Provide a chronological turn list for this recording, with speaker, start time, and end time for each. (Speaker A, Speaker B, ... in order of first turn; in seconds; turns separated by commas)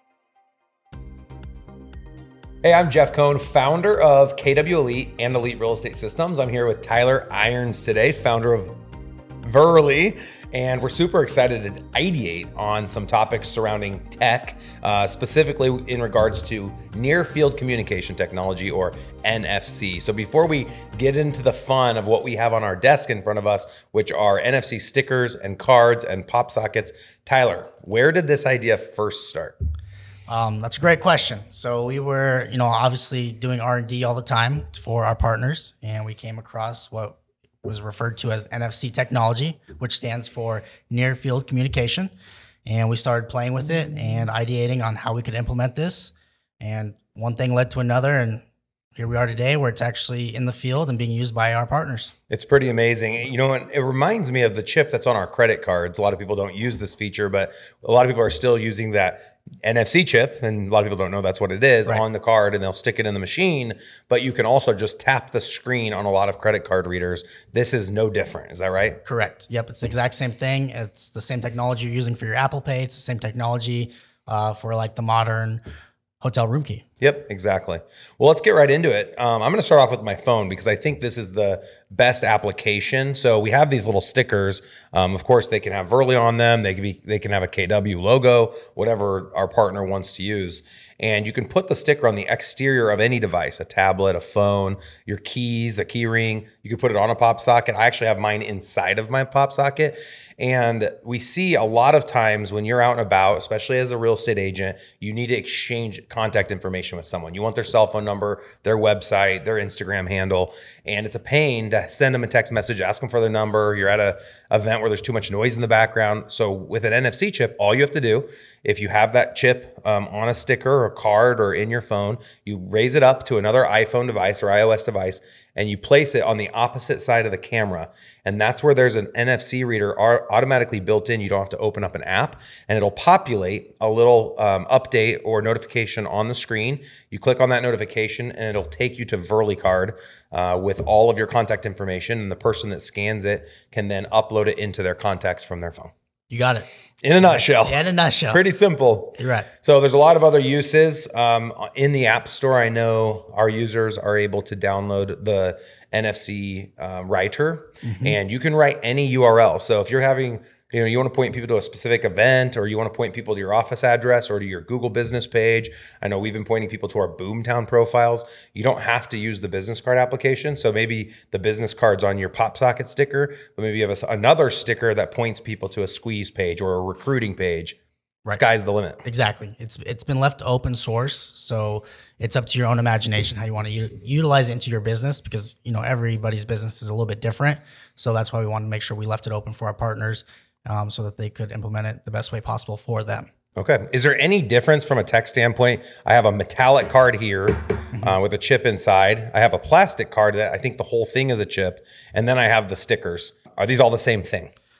Speaker A: 2.6-8.7, Speaker A: 9.4-29.5, Speaker B: 30.3-42.1, Speaker B: 42.6-48.4, Speaker B: 49.0-52.1, Speaker A: 52.3-69.0, Speaker B: 69.0-75.6, Speaker B: 76.2-76.8, Speaker A: 77.0-145.9, Speaker B: 146.3-146.7, Speaker A: 147.0-177.8, Speaker B: 147.2-148.4, Speaker B: 149.2-149.5, Speaker B: 157.8-158.2, Speaker A: 178.3-179.0, Speaker B: 179.0-193.3, Speaker A: 193.6-204.5